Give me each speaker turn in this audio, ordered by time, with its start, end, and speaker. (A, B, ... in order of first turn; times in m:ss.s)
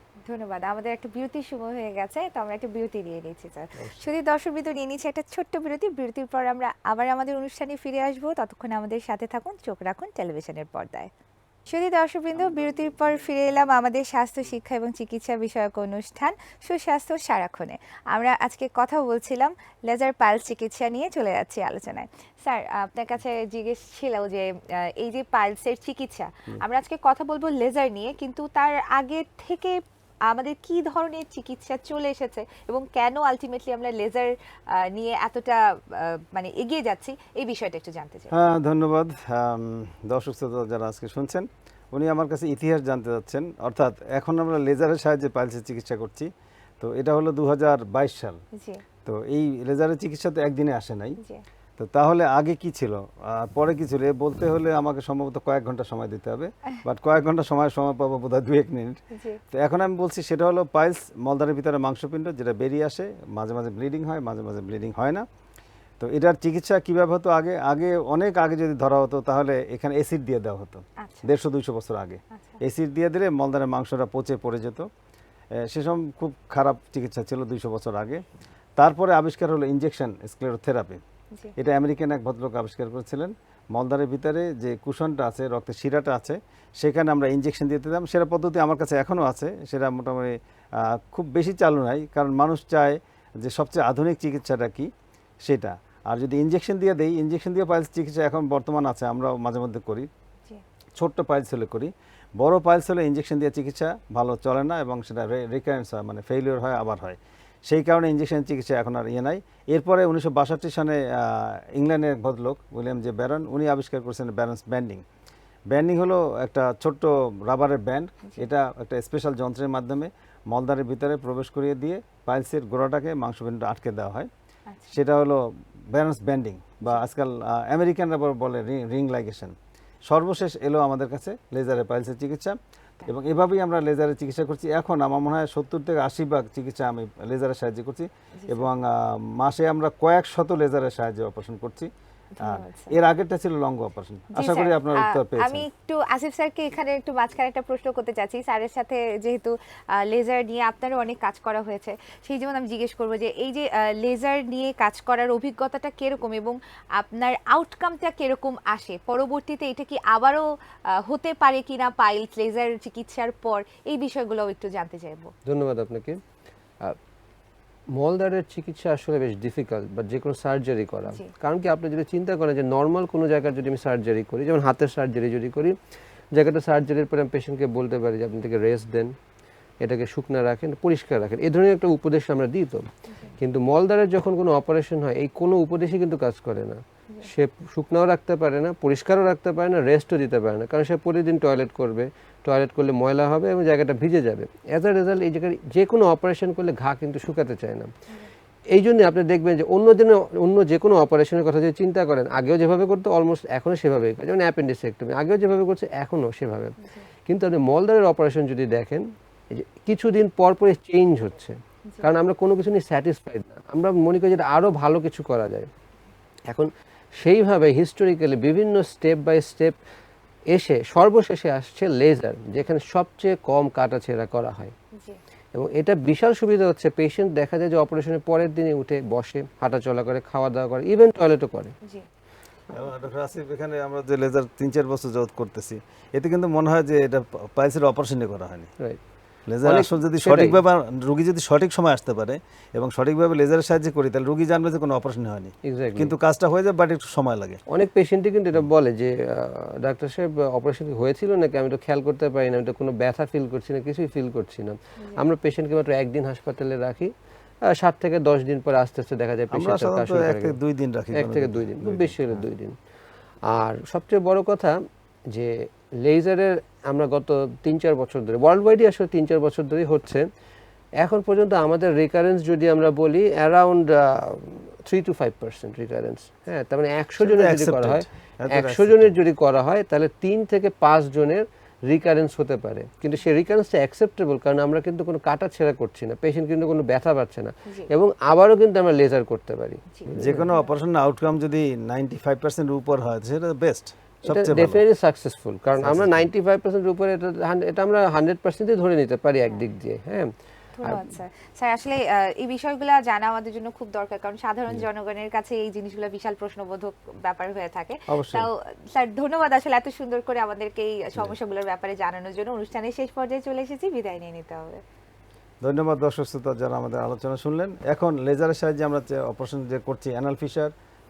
0:00.2-0:11.1 A
0:11.7-0:38.3 A
0:38.3-0:46.3 B
0:46.8-0:48.4 B
0:48.6-0:48.8 A
0:49.0-0:51.2 B
0:51.8-0:59.0 B
0:59.1-0:59.4 A
0:59.5-1:05.2 B
1:06.0-1:14.9 B
1:11.0-1:11.3 A
1:12.3-1:12.6 A
1:15.5-1:18.2 B
1:18.8-1:21.0 B
1:21.6-1:34.9 B
1:35.4-1:40.1 B
1:41.0-1:55.0 B
1:55.7-2:04.3 B
2:04.7-2:05.0 A
2:04.9-2:09.5 B
2:10.1-2:21.9 B
2:18.4-2:18.7 A
2:22.3-2:23.0 A
2:22.4-2:25.7 B
2:24.3-2:45.3 A
2:45.5-2:46.2 C
2:47.9-2:55.8 C
2:56.3-2:59.1 C
2:59.8-3:02.8 C
3:03.4-3:17.9 C
3:18.7-3:35.7 C
3:26.8-3:27.1 A
3:31.9-3:32.1 A
3:36.5-3:39.8 C
3:40.5-3:44.7 C
3:44.9-3:45.2 A
3:45.5-3:51.7 C
3:52.7-3:58.7 B
3:59.5-4:07.6 B
3:59.6-4:00.6 C
4:05.6-4:06.1 C
4:07.7-4:17.1 C
4:17.7-4:20.6 C
4:19.5-4:22.4 B
4:21.1-4:22.8 C
4:23.5-4:24.7 C
4:25.3-4:30.2 C
4:31.0-4:50.5 C
4:37.2-4:39.1 B
4:49.9-4:50.7 A
4:50.2-4:54.8 B
4:54.2-5:00.3 C
4:55.8-4:56.3 B
5:00.8-5:14.8 A
5:00.8-5:01.1 C
5:08.1-5:08.5 B
5:15.6-5:20.7 B